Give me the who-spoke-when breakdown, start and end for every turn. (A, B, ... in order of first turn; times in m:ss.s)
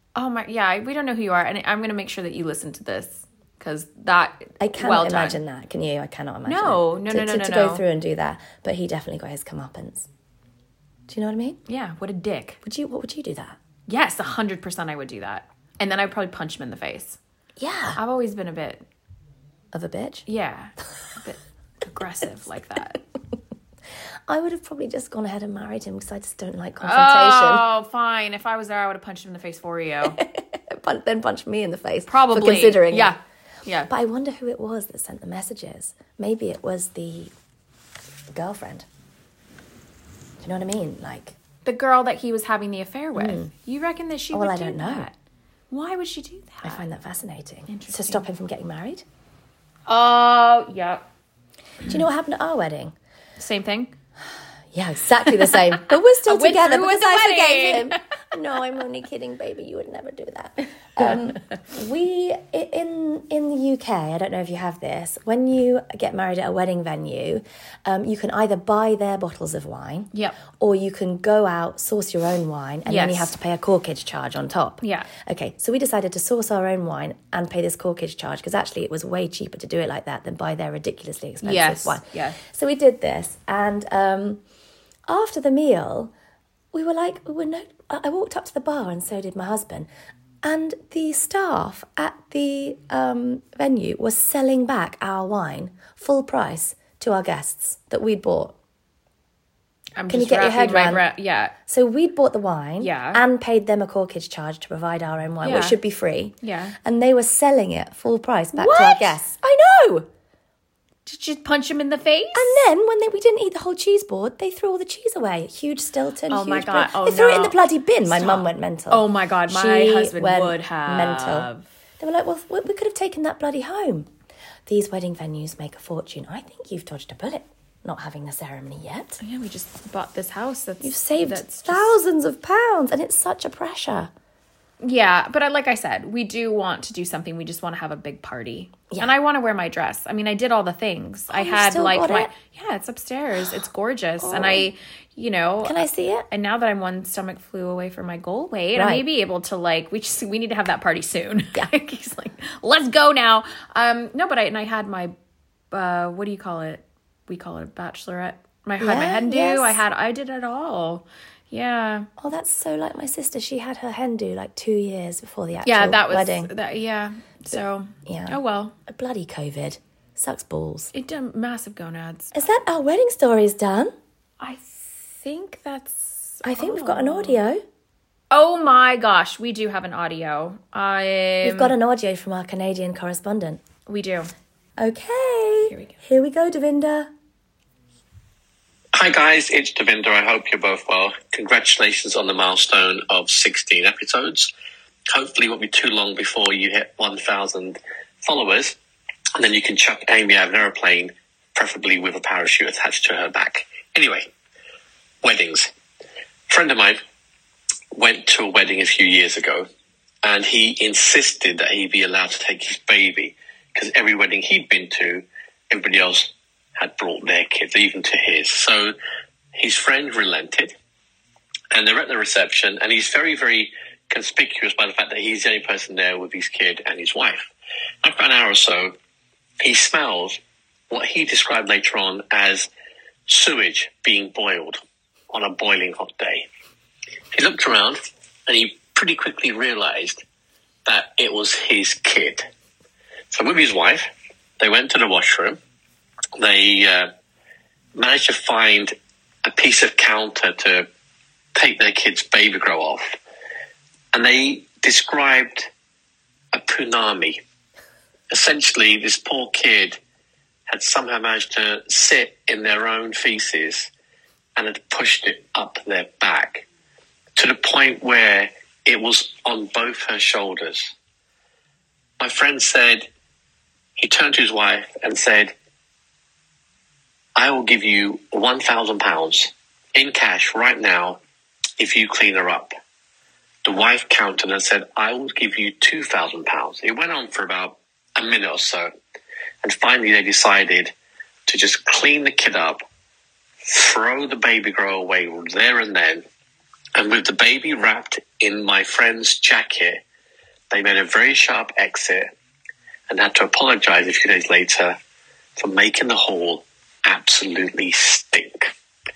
0:00.1-0:05.4 A
0:04.6-0:10.1 B
0:06.5-0:07.8 A
0:11.1-0:11.6 B
0:11.7-0:12.6 A
0:12.6-0:13.6 B
0:13.9-0:17.2 A
0:17.6-0:18.0 B
0:18.0-0:18.8 A
0:19.7-0:20.2 B
0:20.3-0:23.0 A
0:24.3-0:27.6 B
0:26.8-0:30.2 A
0:30.0-0:33.1 B
0:32.0-0:33.9 A
0:33.9-0:37.3 B
0:38.3-0:38.8 B
0:40.4-0:41.4 B
0:41.6-0:45.1 A
0:43.1-0:43.5 B
0:44.3-0:45.1 B
0:45.7-0:46.8 A
0:46.6-0:49.0 B
0:47.7-0:48.2 A
0:49.9-0:51.0 A
0:51.8-0:52.9 B
0:53.4-0:53.9 A
0:54.7-1:24.4 B
0:56.2-0:58.0 A
1:12.8-1:13.3 A
1:14.8-1:15.1 A
1:21.4-1:22.4 A
1:25.1-1:26.1 B
1:26.7-1:29.9 B
1:30.4-1:38.5 B
1:40.0-1:41.5 A
1:40.1-1:41.0 B
1:41.6-1:49.4 B
1:42.8-1:43.2 A
1:45.4-1:45.8 A
1:46.4-1:46.8 A
1:48.5-1:50.1 A
1:51.0-1:52.6 A
1:52.3-2:01.5 B
1:56.3-2:01.7 A
2:02.0-2:04.1 B
2:04.7-2:09.2 B
2:09.2-2:12.0 A
2:10.8-2:14.1 B
2:14.8-2:25.8 A
2:21.3-2:22.3 B
2:24.2-2:24.7 B
2:25.6-2:26.3 B
2:26.3-2:35.1 A
2:28.7-2:29.0 B
2:35.7-2:42.1 A
2:38.8-2:39.8 B
2:42.2-2:46.5 B
2:45.6-2:48.7 A
2:48.0-2:50.9 B
2:50.9-2:52.4 A
2:52.3-2:53.9 B
2:54.4-2:57.4 A
2:56.4-2:57.6 B
2:58.3-3:01.7 A
3:01.4-3:03.6 B
3:03.9-3:04.3 A
3:04.8-3:07.1 B
3:08.9-3:14.5 C
3:15.1-3:18.8 C
3:19.4-3:24.3 C
3:25.2-3:25.7 C
3:26.5-3:27.0 C
3:27.9-3:29.7 C
3:30.2-3:38.9 C
3:39.5-3:40.7 C
3:41.7-3:47.5 C
3:48.0-3:48.9 C
3:49.6-3:50.4 C
3:50.9-3:52.7 C
3:53.3-3:54.8 C
3:55.3-3:56.5 C
3:57.3-4:00.2 C
4:00.8-4:02.5 C
4:03.3-4:05.6 C
4:06.4-4:07.1 C
4:07.9-4:08.9 C
4:09.4-4:10.9 C
4:11.5-4:13.2 C
4:14.1-4:15.7 C
4:16.5-4:17.4 C
4:18.3-4:20.0 C
4:20.7-4:23.9 C
4:24.6-4:26.7 C
4:27.4-4:30.9 C
4:32.2-4:33.1 C
4:34.0-4:35.5 C
4:37.3-4:41.2 C
4:41.8-4:42.7 C
4:43.6-4:48.9 C
4:49.6-4:50.9 C
4:51.5-4:52.8 C
4:53.6-4:56.2 C
4:56.9-5:00.0 C
5:00.7-5:02.3 C
5:03.1-5:05.0 C
5:05.6-5:08.7 C